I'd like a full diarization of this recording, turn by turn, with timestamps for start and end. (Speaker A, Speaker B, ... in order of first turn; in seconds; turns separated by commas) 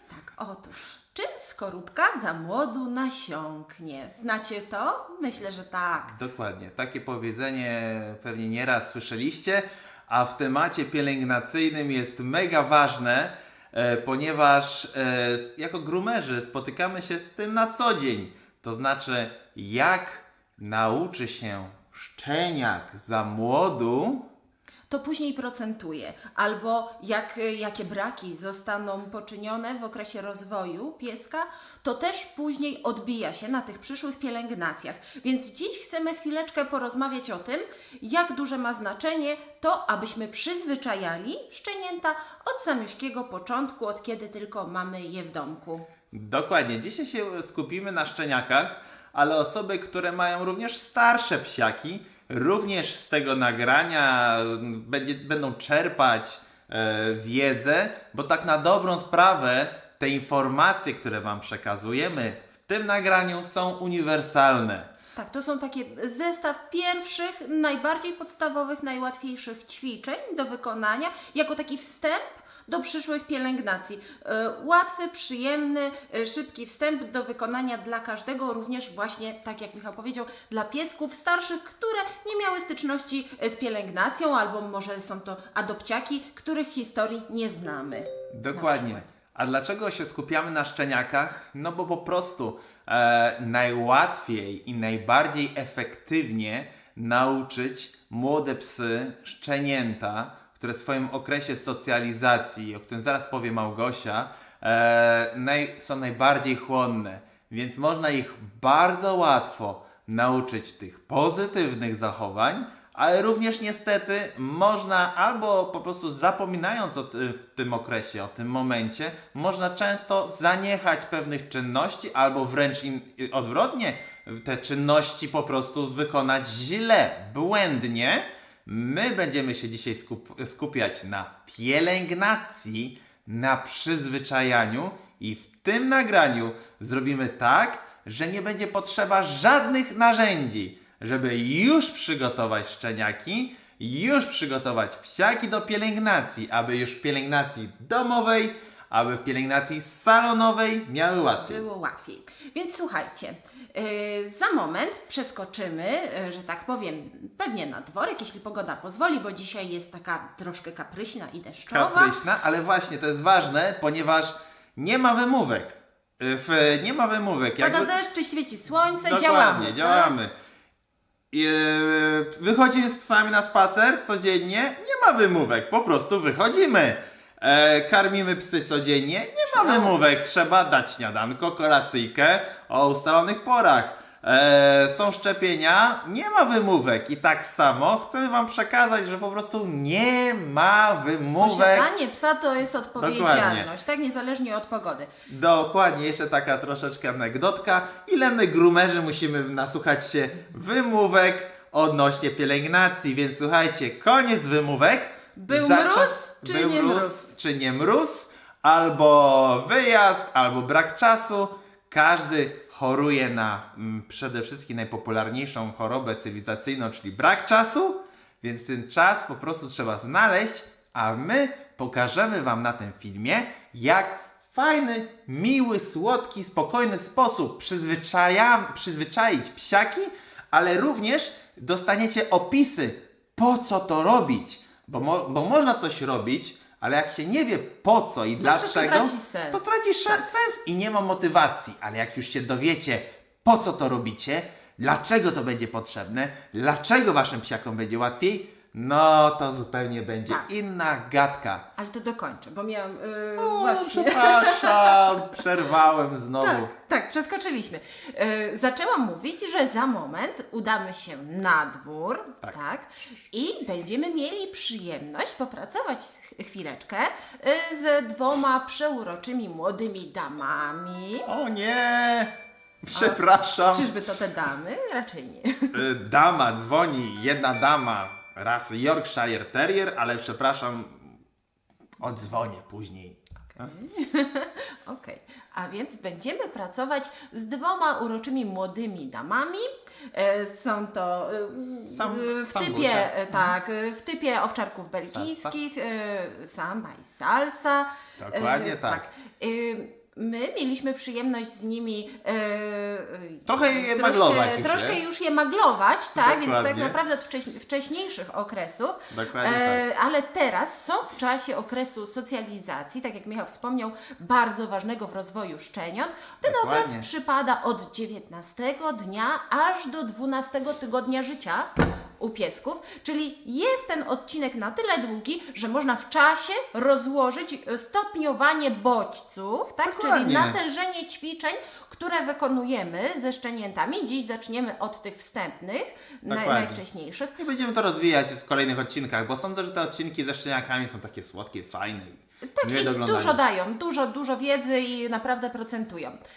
Speaker A: 0.1-6.1, Speaker B: 6.1-24.2, Speaker A: 24.9-45.9, Speaker B: 46.1-64.9, Speaker A: 65.2-89.1, Speaker B: 88.3-151.6, Speaker A: 151.4-162.2, Speaker B: 161.7-167.9, Speaker A: 167.6-170.2, Speaker B: 169.0-170.3, Speaker B: 171.3-191.9, Speaker A: 179.5-180.0, Speaker A: 191.4-195.1, Speaker B: 193.0-193.7, Speaker B: 195.3-251.7, Speaker A: 205.3-207.3, Speaker A: 238.4-239.7, Speaker A: 251.8-255.1, Speaker B: 253.4-256.7, Speaker A: 256.4-271.3, Speaker B: 271.2-272.3, Speaker B: 272.8-273.9, Speaker A: 272.9-275.8, Speaker B: 275.7-281.0, Speaker B: 282.0-283.7, Speaker A: 283.5-337.3, Speaker B: 291.9-293.5, Speaker B: 295.1-295.5, Speaker B: 298.2-299.0, Speaker B: 303.5-305.0, Speaker B: 306.1-307.0, Speaker B: 309.1-309.8, Speaker B: 316.4-317.1, Speaker B: 329.8-330.6, Speaker B: 336.3-336.8, Speaker B: 337.4-343.4, Speaker A: 342.5-346.2